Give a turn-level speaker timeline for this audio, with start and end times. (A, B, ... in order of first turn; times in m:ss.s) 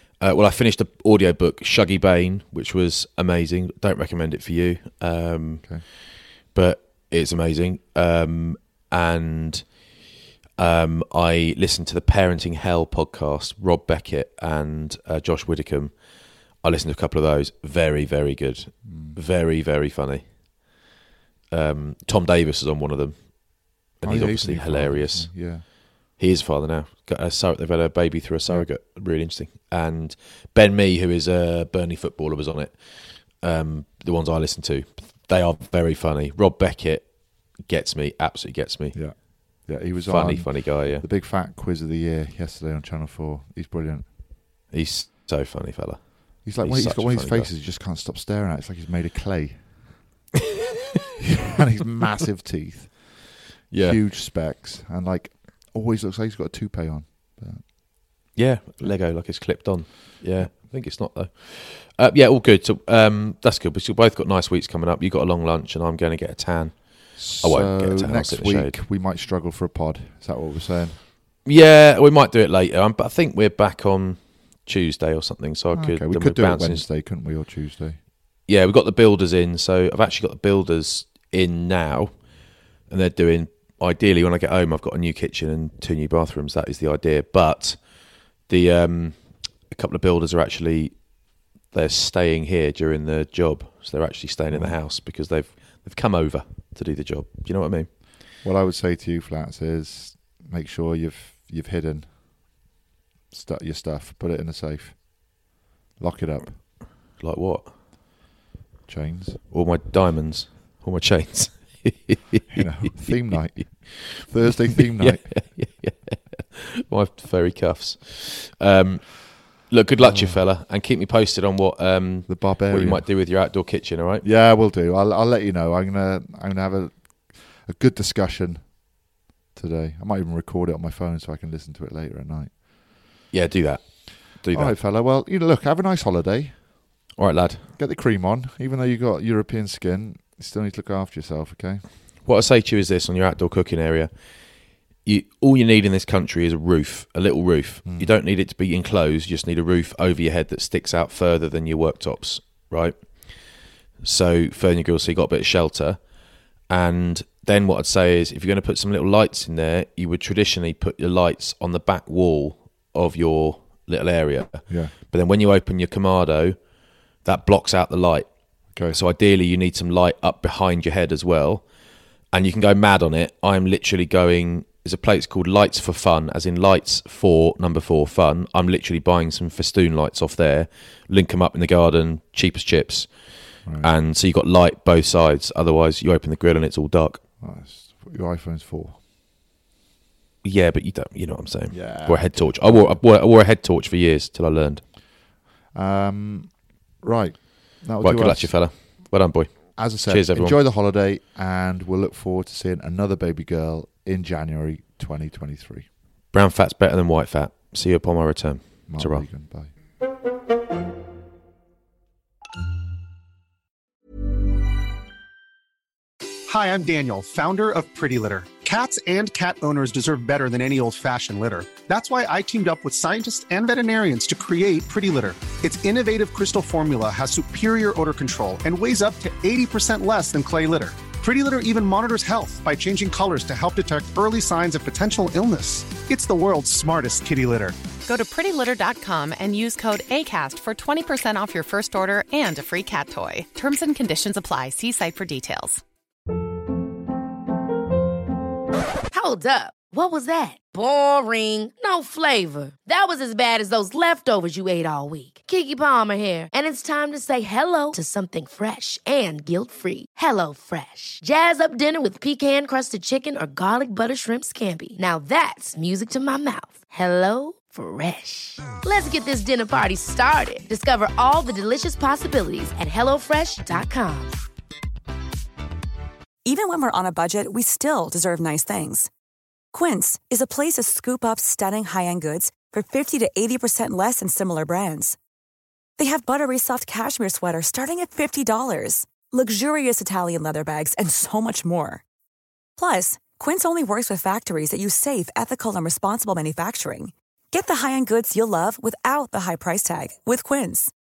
0:00.2-0:09.9 A
0:10.6-0:20.4 A
0:18.8-0:19.2 B
0:21.5-0:41.0 A
0:24.0-0:25.7 B
0:38.9-0:44.2 B
0:44.7-0:47.5 A
0:46.4-0:50.1 B
0:51.2-0:59.0 B
0:53.7-0:54.0 A
0:58.3-1:08.7 A
1:07.2-1:11.0 B
1:11.4-1:16.8 A
1:15.7-1:18.0 B
1:18.4-1:22.3 A
1:22.9-1:37.9 A
1:34.5-1:34.8 B
1:38.4-1:42.6 B
1:43.3-1:46.6 B
1:47.2-1:47.7 A
1:48.9-1:49.4 B
1:49.5-1:53.1 A
1:52.5-1:55.5 B
1:54.7-2:04.2 A
2:00.0-2:00.4 B
2:02.3-2:03.1 B
2:04.2-2:09.0 B
2:09.5-2:12.8 B
2:13.3-2:14.8 A
2:14.5-2:16.8 B
2:17.2-2:17.7 A
2:17.7-2:21.8 B
2:22.2-2:36.1 A
2:27.8-2:28.1 B
2:36.6-2:46.6 A
2:44.7-2:44.9 B
2:47.2-2:51.7 A
2:48.7-2:49.0 B
2:52.3-3:07.2 A
3:03.6-3:03.9 B
3:07.4-3:09.0 B
3:10.4-3:14.8 A
3:11.7-3:13.0 B
3:15.7-3:18.9 B
3:18.0-3:20.6 A
3:19.8-3:25.9 B
3:26.3-3:29.3 A
3:28.9-3:29.7 B
3:36.5-3:57.8 C
3:58.0-4:05.8 D
4:09.1-4:34.3 E
4:36.4-4:39.1 F
4:39.7-4:45.2 F
4:46.0-4:52.0 F
4:52.8-5:00.9 F